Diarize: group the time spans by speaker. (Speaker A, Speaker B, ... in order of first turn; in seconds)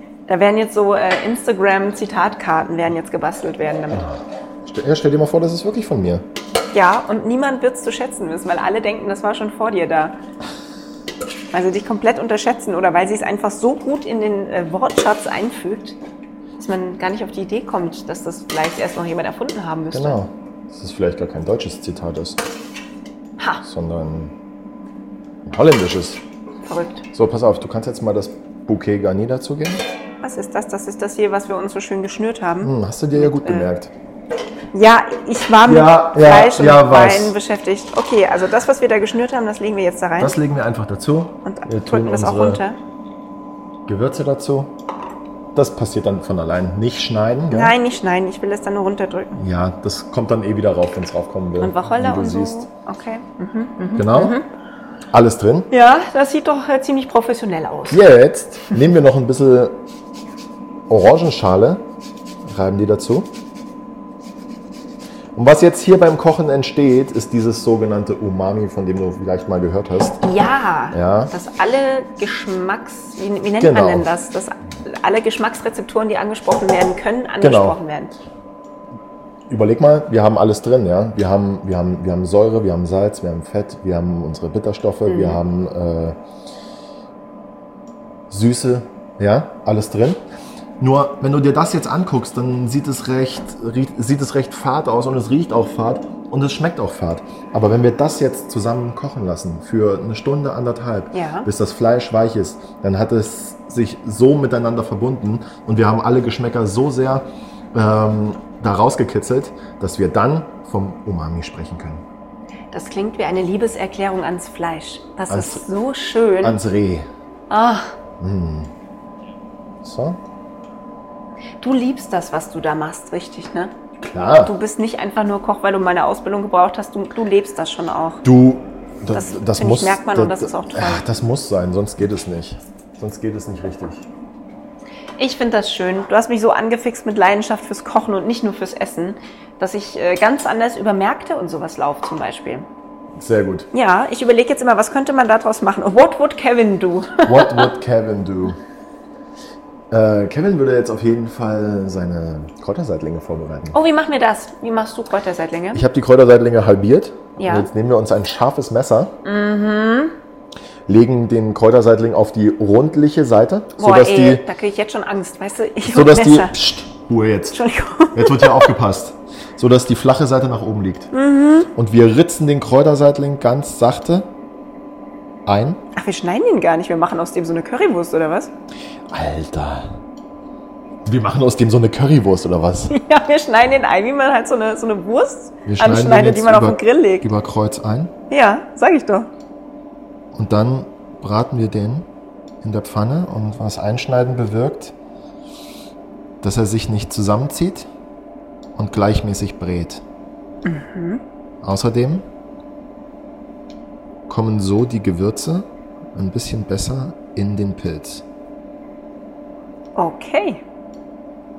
Speaker A: 0.3-4.1, 6.7-10.2, 11.5-15.9, 16.6-20.2, 26.6-27.0, 30.2-33.7, 34.7-40.3, 41.4-42.8, 47.5-49.4, 51.6-54.5, 55.7-58.0, 70.2-78.1, 85.1-85.4, 101.1-101.5, 112.7-116.6, 117.5-117.9, 121.6-128.2, 129.1-131.0, 135.2-142.7, 143.7-147.7, 153.7-155.8, 157.4-157.7, 159.2-160.2, 163.8-166.6, 167.5-168.7, 171.1-171.7, 175.9-178.5, 182.9-187.3, 188.3-189.3, 200.6-201.2, 209.9-210.6
Speaker B: 3.9-6.2, 19.9-22.4, 23.6-24.3, 25.4-26.2, 27.1-29.8, 32.6-33.9, 35.6-37.4, 40.2-42.6, 43.9-44.8, 45.5-47.8, 49.3-52.6, 54.0-54.4, 55.1-55.7, 57.9-59.8, 60.9-61.9, 62.4-63.3, 65.3-70.2, 70.9-71.3, 73.6-74.1, 77.4-77.8, 79.5-86.2, 88.3-90.2, 90.8-112.0, 115.3-115.6, 116.4-117.1, 118.2-118.7, 119.8-120.2, 124.0-124.5, 128.2-134.0, 143.2-143.7, 147.2-148.6, 149.9-153.8, 155.7-159.2, 160.9-164.5, 165.8-167.6, 168.1-171.1, 171.7-174.3, 175.4-175.8, 179.1-180.0, 181.0-183.0, 185.6-188.1, 190.3-192.1, 192.6-194.9, 196.4-197.9, 198.8-200.0, 201.6-202.2, 204.3-208.2